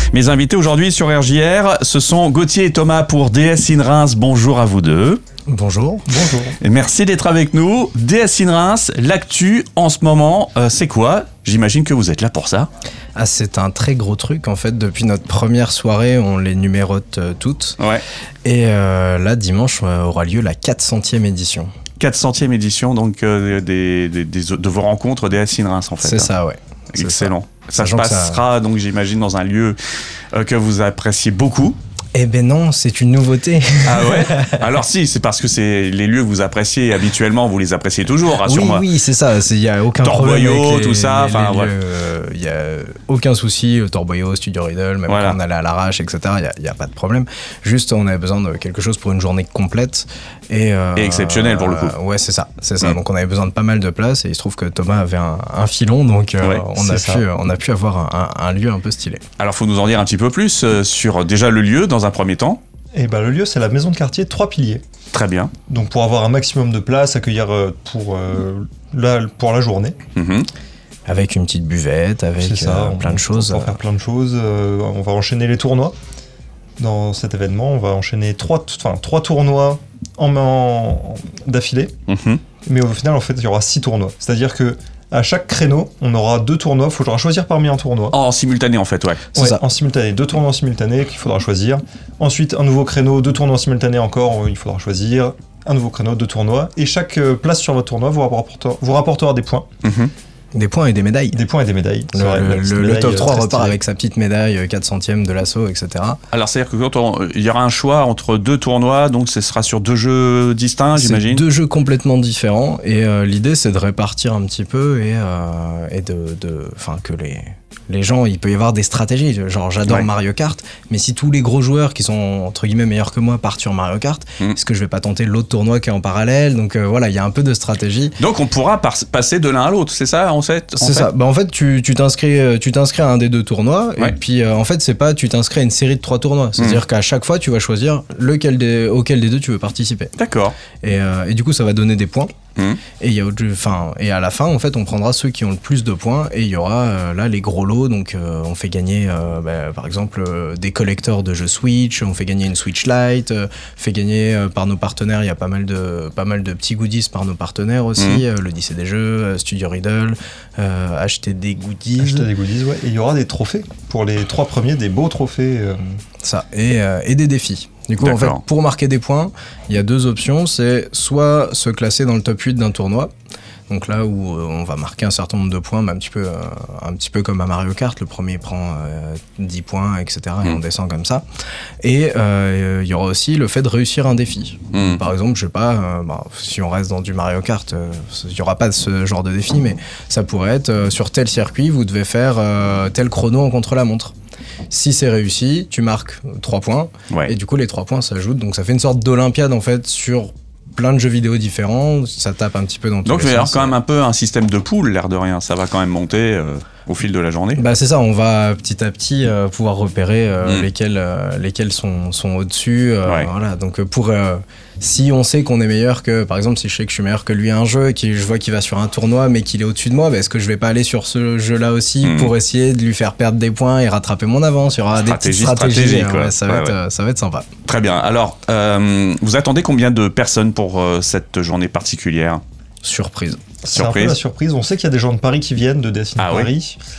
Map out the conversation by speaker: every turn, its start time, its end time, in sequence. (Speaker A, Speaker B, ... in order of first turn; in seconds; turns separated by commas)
Speaker A: 0.1-5.2, Speaker B: 5.5-6.1, Speaker C: 6.1-6.6, Speaker A: 6.6-12.7, Speaker B: 13.2-17.8, Speaker B: 18.4-21.7, Speaker A: 22.0-26.3, Speaker B: 26.0-28.4, Speaker A: 26.9-29.8, Speaker A: 30.3-31.8, Speaker B: 32.1-34.7, Speaker A: 33.8-38.9, Speaker B: 38.4-59.2, Speaker A: 40.0-41.7, Speaker A: 45.1-45.4, Speaker A: 51.0-52.0, Speaker C: 56.7-57.3, Speaker A: 59.4-62.6, Speaker C: 62.9-64.8, Speaker A: 65.1-65.5, Speaker C: 65.7-70.0, Speaker A: 70.2-70.5, Speaker B: 71.1-73.8, Speaker C: 72.4-76.0, Speaker C: 76.8-82.0, Speaker A: 82.1-82.4, Speaker C: 82.7-88.2, Speaker A: 88.1-89.2, Speaker B: 89.3-89.6, Speaker C: 89.3-99.7, Speaker A: 99.8-100.1, Speaker B: 100.5-101.4, Speaker C: 101.3-103.8, Speaker B: 102.1-106.2, Speaker A: 106.3-111.4, Speaker B: 111.0-128.2, Speaker A: 128.2-131.1, Speaker B: 130.8-140.1, Speaker A: 140.2-140.6, Speaker B: 140.8-142.3, Speaker A: 142.6-142.8, Speaker B: 143.0-162.3, Speaker A: 158.0-158.2, Speaker C: 162.0-165.8, Speaker B: 166.2-173.1, Speaker A: 168.0-168.4, Speaker B: 173.7-181.2, Speaker B: 181.8-194.1, Speaker A: 184.7-185.0, Speaker B: 194.7-203.8, Speaker A: 203.1-207.6, Speaker B: 207.6-227.5, Speaker A: 213.1-213.3, Speaker A: 222.0-222.3, Speaker A: 224.9-226.8, Speaker A: 227.7-232.4, Speaker B: 232.8-233.4, Speaker C: 233.6-236.8, Speaker A: 233.7-234.2, Speaker A: 236.2-236.5